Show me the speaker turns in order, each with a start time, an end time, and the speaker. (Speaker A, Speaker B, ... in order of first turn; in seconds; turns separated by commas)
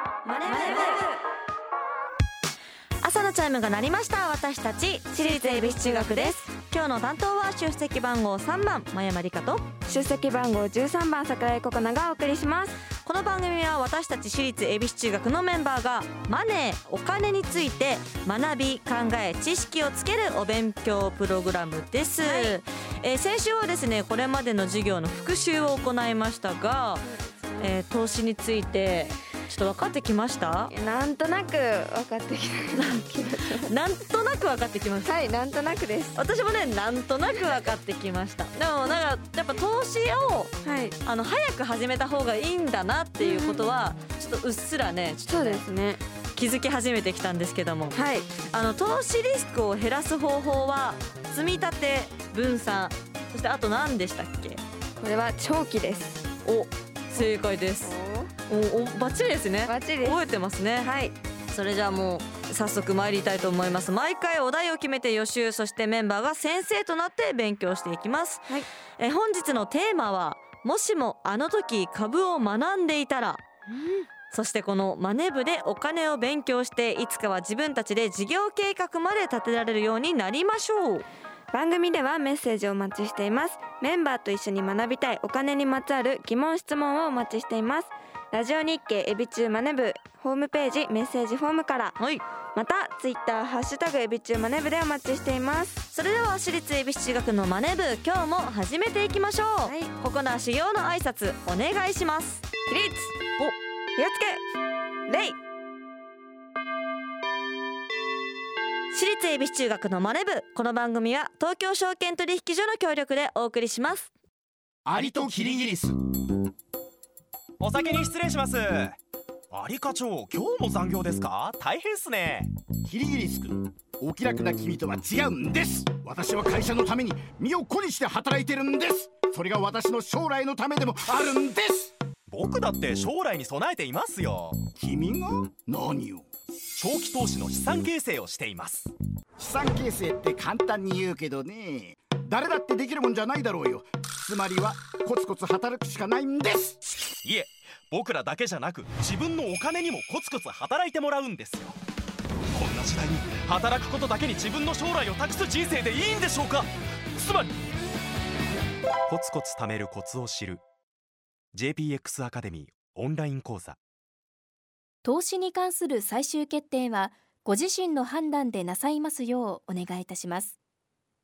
Speaker A: 0.2-1.1, Speaker B: 0.4-1.2, Speaker A: 3.0-9.7, Speaker B: 5.1-6.4, Speaker B: 9.9-12.8, Speaker A: 13.0-27.1, Speaker B: 22.2-22.6, Speaker B: 27.0-27.8, Speaker A: 27.6-30.7, Speaker B: 30.7-33.7, Speaker A: 32.8-35.2, Speaker B: 35.0-36.2, Speaker A: 36.1-45.6, Speaker B: 40.6-41.0, Speaker B: 43.2-43.8, Speaker B: 45.3-46.0, Speaker A: 46.4-48.0, Speaker B: 47.9-48.3, Speaker A: 48.5-54.6, Speaker B: 55.0-56.3, Speaker A: 56.5-58.0, Speaker B: 57.2-58.3, Speaker A: 58.5-60.9, Speaker B: 59.7-60.2, Speaker B: 60.8-61.1, Speaker A: 61.5-73.4, Speaker A: 74.3-81.1, Speaker B: 81.5-92.0, Speaker B: 92.5-95.9, Speaker A: 95.9-102.4, Speaker B: 99.6-99.9, Speaker B: 102.7-103.1, Speaker B: 104.0-104.4, Speaker B: 105.1-105.4, Speaker A: 108.9-114.1, Speaker C: 114.9-116.0, Speaker D: 114.9-115.8, Speaker D: 117.6-119.0, Speaker D: 119.5-122.5, Speaker C: 122.9-131.9, Speaker D: 132.3-134.7, Speaker C: 134.8-136.2, Speaker D: 136.8-138.9, Speaker C: 139.4-146.8, Speaker D: 147.2-151.8, Speaker D: 152.5-157.6, Speaker D: 159.1-160.6, Speaker D: 161.5-163.8, Speaker E: 165.0-170.6